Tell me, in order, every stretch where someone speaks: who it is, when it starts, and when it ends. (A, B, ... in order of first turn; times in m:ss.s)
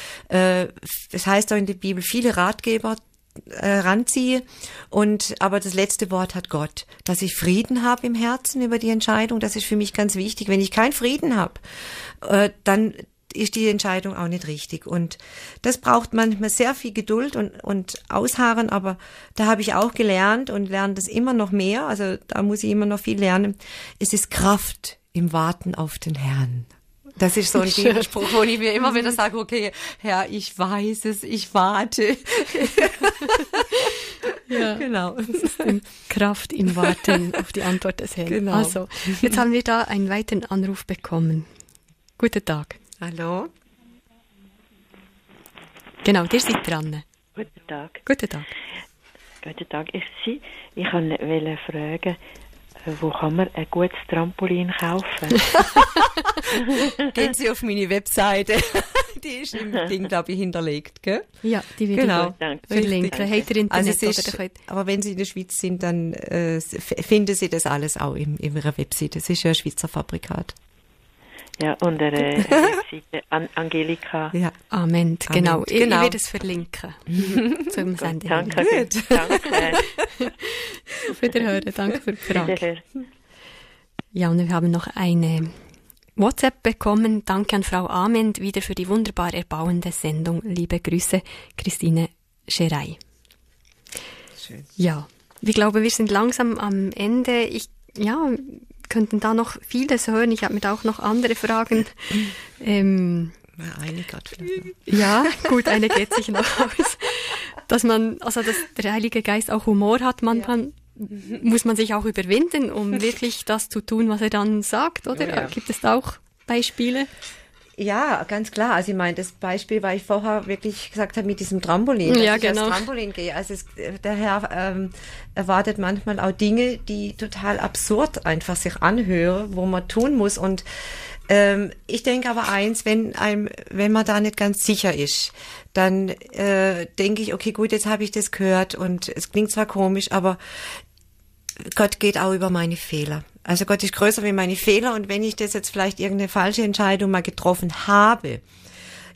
0:00.3-0:35.8 A
0:27.6-0:28.2 B
0:34.5-0:41.5 B
0:36.9-0:37.2 A
0:38.3-0:39.4 A
0:42.2-0:42.8 B
0:43.0-0:43.5 A
0:46.0-0:47.0 B
0:47.3-0:48.0 C
0:48.0-0:48.4 B
0:49.4-0:52.2 C
0:52.8-0:55.7 C
0:57.1-1:01.3 A
1:01.4-1:04.5 B
1:01.9-1:02.9 A
1:02.3-1:03.5 C
1:03.7-1:10.6 A
1:11.6-1:14.4 C
1:14.7-1:18.6 B
1:15.3-1:16.2 A
1:17.9-1:19.8 C
1:18.5-1:19.7 A
1:19.3-1:19.6 B
1:20.2-1:20.5 B
1:21.1-1:22.6 B
1:22.3-1:22.8 C
1:24.1-1:25.5 B
1:26.2-1:33.0 B
1:34.4-1:34.6 A
1:34.8-1:43.4 B
1:43.6-1:46.0 A
1:44.8-1:57.1 B
1:55.1-1:55.5 A
1:57.8-2:10.6 A
2:02.0-2:02.9 B
2:11.3-2:20.8 A
2:21.6-2:28.4 A